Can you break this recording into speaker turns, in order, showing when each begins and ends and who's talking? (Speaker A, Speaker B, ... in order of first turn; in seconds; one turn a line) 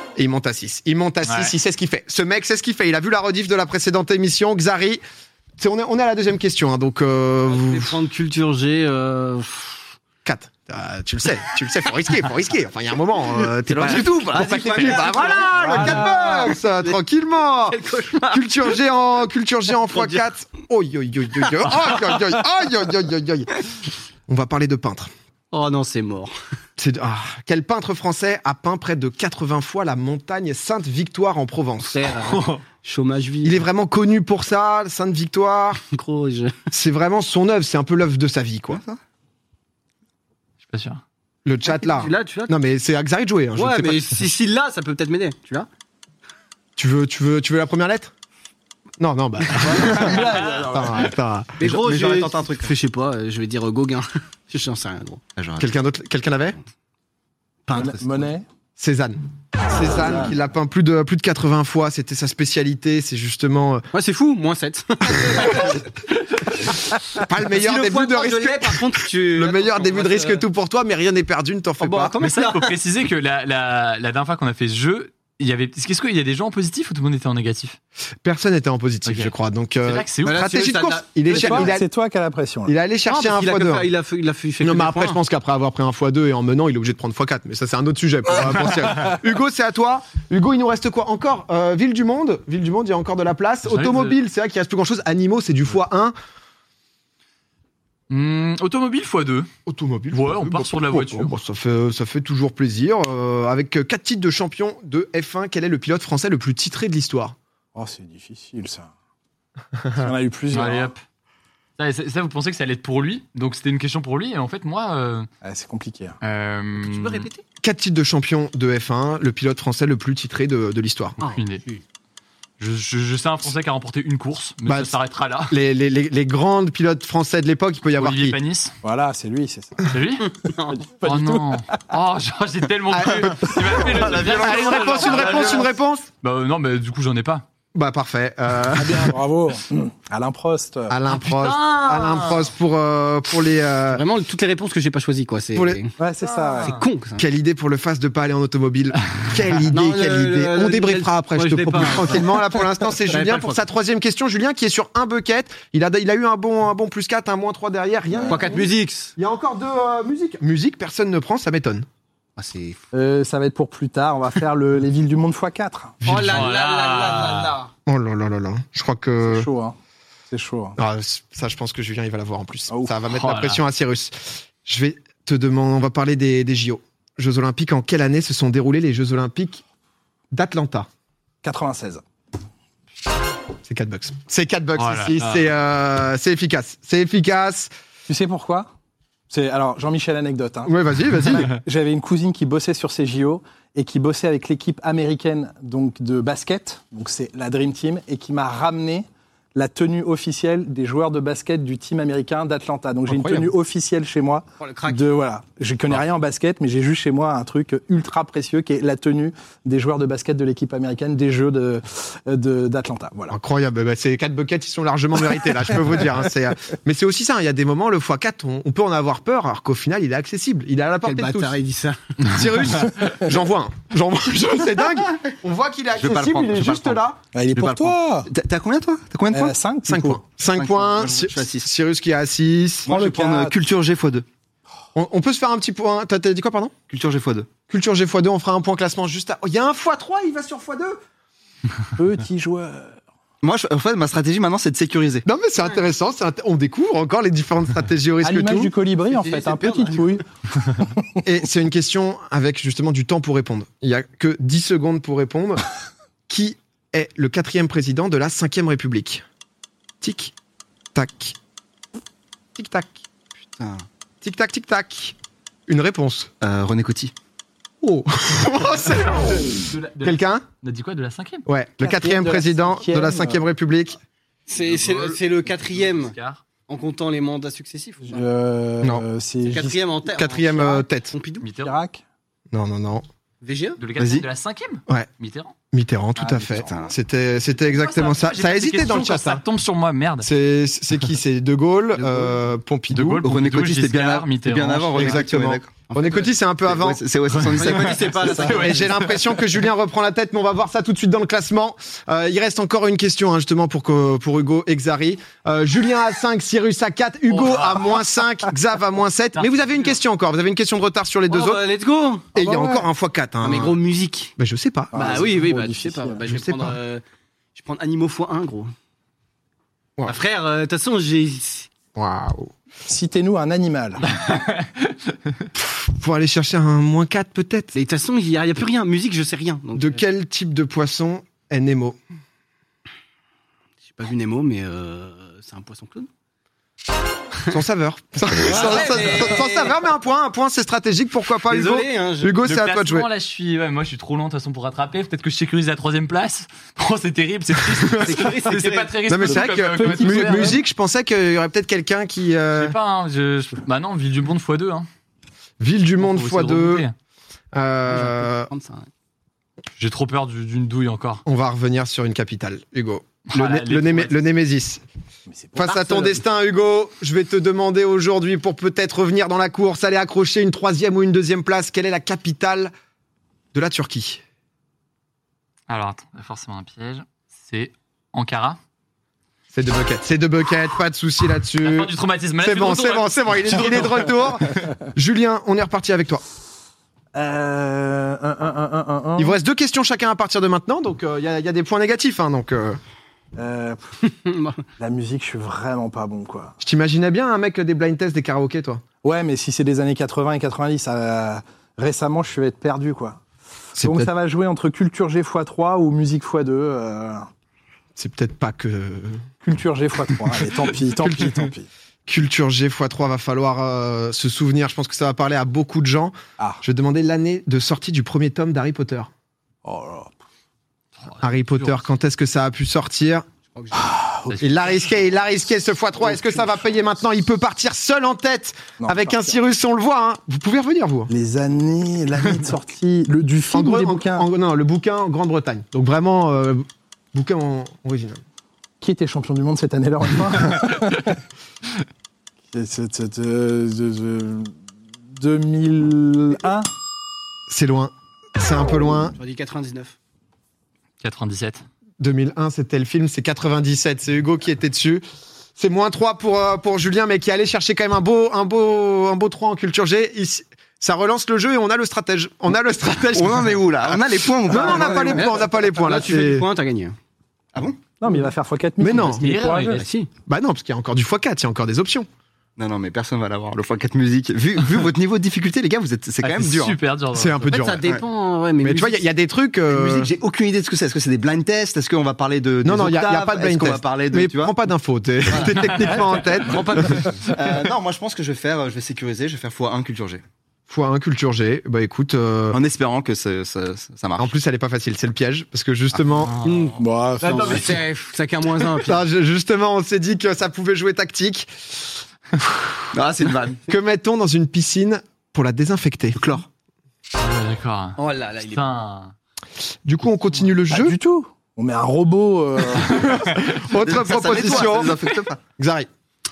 Speaker A: 0.1-5.0
Speaker B: 1.2-1.5
Speaker A: 5.6-7.9
Speaker C: 7.5-9.8
Speaker A: 10.2-23.5
Speaker D: 13.7-15.5
Speaker C: 13.8-16.9
Speaker E: 15.7-16.1
Speaker C: 17.7-18.5
Speaker C: 19.9-20.2
Speaker A: 24.3-25.1
Speaker C: 25.5-26.3
Speaker A: 26.8-31.9
Speaker C: 31.9-33.6
Speaker B: 32.3-32.6
Speaker A: 33.4-35.8
Speaker C: 35.8-36.5
Speaker A: 36.7-38.8
Speaker D: 38.7-39.0
Speaker B: 40.7-41.0
Speaker A: 41.4-44.0
Speaker C: 41.7-42.5
Speaker C: 43.5-45.7
Speaker A: 46.8-48.1
Speaker A: 49.0-51.5
Speaker C: 49.7-50.4
Speaker E: 49.8-51.0
Speaker C: 51.6-55.2
Speaker D: 51.6-52.7
Speaker D: 55.4-55.7
Speaker A: 55.6-56.6
Speaker C: 57.7-58.3
Speaker E: 57.7-58.4
Speaker A: 58.8-63.8
Speaker C: 63.9-65.8
Speaker A: 67.2-68.8
Speaker C: 67.5-70.4
Speaker A: 69.3-72.2
Speaker C: 71.8-72.7
Speaker B: 72.2-77.8
Speaker A: 78.2-81.9
Speaker B: 79.0-79.3
Speaker B: 79.8-80.4
Speaker C: 80.2-81.8
Speaker E: 81.3-82.7
Speaker A: 82.7-83.9
Speaker C: 83.0-85.2
Speaker A: 84.6-96.1
Speaker B: 93.7-94.2
Speaker B: 98.1-99.5
Speaker A: 99.7-107.3
Speaker B: 100.1-101.3
Speaker E: 107.7-108.9
Speaker A: 109.8-110.1
Speaker E: 110.0-110.9
Speaker B: 110.5-111.0
Speaker B: 111.8-115.3
Speaker E: 115.4-116.2
Speaker B: 116.2-117.3
Speaker C: 116.8-117.4
Speaker A: 117.6-121.2
Speaker C: 121.2-121.8
Speaker B: 121.2-121.6
Speaker B: 122.6-125.5
Speaker A: 124.7-124.9
Speaker A: 125.5-128.4
Speaker B: 128.0-128.7
Speaker E: 128.8-129.9
Speaker B: 129.9-130.3
Speaker C: 130.2-130.8
Speaker E: 130.5-131.7
Speaker B: 131.0-135.7
Speaker A: 132.9-136.1
Speaker D: 133.1-135.7
Speaker B: 136.2-137.4
Speaker A: 137.7-139.1
Speaker E: 138.7-140.9
Speaker A: 140.9-144.0
Speaker B: 141.1-142.5
Speaker C: 143.9-145.9
Speaker A: 145.5-145.8
Speaker E: 146.0-146.8
Speaker B: 146.2-146.8
Speaker C: 146.6-147.2
Speaker A: 147.2-161.9
Speaker C: 149.7-153.6
Speaker E: 158.1-158.4
Speaker C: 158.2-159.1
Speaker C: 162.4-162.8
Speaker E: 162.9-166.0
Speaker A: 166.0-166.5
Speaker C: 166.1-167.7
Speaker B: 166.2-167.5
Speaker A: 167.8-169.5
Speaker E: 169.2-169.8
Speaker E: 170.3-170.8
Speaker A: 170.8-179.6
Speaker E: 172.7-173.0
Speaker B: 173.1-173.6
Speaker A: 180.3-180.9
Speaker E: 181.4-182.0
Speaker A: 183.6-187.7
Speaker B: 184.8-185.5
Speaker E: 188.1-188.7
Speaker E: 189.3-190.7
Speaker A: 190.7-191.5
Speaker E: 191.2-213.4
Speaker A: 203.1-203.4
Speaker C: 204.6-205.1
Speaker A: 213.3-221.5
Speaker C: 221.0-222.4
Speaker A: 222.2-227.2
Speaker D: 225.9-227.0
Speaker E: 227.3-228.3
Speaker D: 227.5-229.6
Speaker E: 229.3-230.3
Speaker A: 229.8-232.9
Speaker D: 230.5-231.7
Speaker D: 232.8-234.2
Speaker E: 232.9-233.5
Speaker A: 234.9-236.7
Speaker D: 236.9-237.5
Speaker A: 237.7-241.0
Speaker E: 242.0-243.0
Speaker D: 243.4-245.2
Speaker A: 245.2-248.7
Speaker E: 248.2-251.1
Speaker C: 249.1-250.2
Speaker A: 251.2-255.6
Speaker A: 256.3-259.2
Speaker A: 260.0-260.3
Speaker A: 260.9-261.4
Speaker A: 262.5-263.0
Speaker D: 263.6-263.9
Speaker A: 264.2-265.1
Speaker A: 265.7-266.3
Speaker D: 266.4-267.1
Speaker A: 267.8-270.4
Speaker B: 269.7-271.4
Speaker A: 271.4-274.0
Speaker E: 271.8-273.4
Speaker C: 274.5-276.1
Speaker B: 274.7-276.4
Speaker C: 276.7-278.2
Speaker E: 278.0-279.8
Speaker C: 279.4-281.5
Speaker A: 280.1-281.1
Speaker B: 281.4-281.7
Speaker E: 281.6-282.0
Speaker A: 282.5-283.1
Speaker C: 283.4-283.8
Speaker B: 283.8-285.5
Speaker D: 284.0-284.3
Speaker A: 285.7-289.4
Speaker E: 286.2-286.8
Speaker C: 286.6-286.9
Speaker B: 287.7-290.3
Speaker A: 290.2-293.2
Speaker B: 292.9-295.2
Speaker D: 293.2-295.7
Speaker A: 294.9-297.0
Speaker C: 295.9-296.3
Speaker D: 296.7-298.6
Speaker C: 297.5-299.0
Speaker A: 298.2-311.6
Speaker B: 298.3-299.4
Speaker B: 307.4-307.7
Speaker C: 311.3-312.3
Speaker A: 312.3-313.8
Speaker E: 312.4-312.8
Speaker C: 313.4-314.3
Speaker A: 314.4-315.3
Speaker E: 314.9-316.2
Speaker C: 314.9-317.0
Speaker A: 316.3-316.7
Speaker C: 317.5-318.7
Speaker C: 320.1-321.7
Speaker A: 321.9-322.5
Speaker E: 322.9-324.1
Speaker B: 324.1-325.1
Speaker A: 325.5-327.8
Speaker C: 327.8-330.0
Speaker A: 329.7-332.0
Speaker C: 333.9-336.1
Speaker A: 337.5-343.1
Speaker C: 338.4-339.8
Speaker C: 341.4-342.4
Speaker B: 342.4-350.6
Speaker A: 347.5-348.3
Speaker C: 348.0-348.9
Speaker A: 349.1-352.8
Speaker E: 349.2-350.6
Speaker B: 352.5-354.9
Speaker A: 355.6-356.9
Speaker B: 356.0-356.9
Speaker A: 357.5-358.5
Speaker C: 357.9-358.9
Speaker B: 359.8-361.2
Speaker A: 361.2-364.8
Speaker B: 363.3-364.2
Speaker E: 365.3-366.1
Speaker A: 365.6-372.7
Speaker C: 365.7-366.1
Speaker A: 373.5-374.2
Speaker B: 375.7-378.6
Speaker A: 379.5-386.2
Speaker B: 381.6-384.2
Speaker E: 387.1-389.4
Speaker A: 389.2-392.8
Speaker E: 393.4-394.0
Speaker C: 394.0-394.6
Speaker E: 394.8-396.5
Speaker A: 396.6-398.8
Speaker E: 399.0-403.2
Speaker E: 403.8-407.3
Speaker A: 403.8-404.1
Speaker A: 407.9-409.3
Speaker E: 409.4-411.7
Speaker A: 411.0-411.4
Speaker A: 412.1-419.1
Speaker E: 419.6-420.1
Speaker B: 421.0-421.8
Speaker A: 421.2-423.2
Speaker C: 423.5-423.9
Speaker E: 423.7-424.5
Speaker A: 424.4-431.1
Speaker E: 426.1-426.5
Speaker E: 428.8-429.4
Speaker E: 431.1-434.2
Speaker A: 433.5-438.2
Speaker E: 438.8-441.2
Speaker E: 442.5-444.5
Speaker E: 445.1-446.7
Speaker A: 447.5-449.1
Speaker C: 449.1-449.9
Speaker B: 451.0-451.6
Speaker A: 452.0-455.0
Speaker A: 455.6-466.5
Speaker D: 463.1-465.3
Speaker C: 464.5-467.0
Speaker D: 467.5-467.8
Speaker E: 468.0-469.8
Speaker A: 468.8-469.2
Speaker B: 469.2-469.8
Speaker C: 469.7-470.1
Speaker A: 470.3-472.1
Speaker D: 472.6-476.7
Speaker B: 476.2-477.6
Speaker A: 476.4-477.9
Speaker C: 477.5-479.0
Speaker A: 478.6-480.1
Speaker D: 479.7-484.5
Speaker A: 482.6-487.1
Speaker B: 485.5-486.1
Speaker C: 486.4-487.2
Speaker D: 487.2-490.2
Speaker A: 490.7-492.6
Speaker D: 492.5-494.3
Speaker A: 494.2-496.4
Speaker C: 496.4-499.0
Speaker E: 496.8-497.8
Speaker B: 497.3-497.6
Speaker A: 498.8-501.5
Speaker A: 502.4-502.9
Speaker D: 502.9-503.6
Speaker A: 503.7-506.2
Speaker D: 506.2-506.5
Speaker B: 507.2-509.1
Speaker C: 508.0-508.6
Speaker A: 509.8-510.9
Speaker E: 510.7-513.1
Speaker A: 512.9-515.0
Speaker B: 512.9-513.7
Speaker D: 513.8-515.4
Speaker A: 515.6-515.9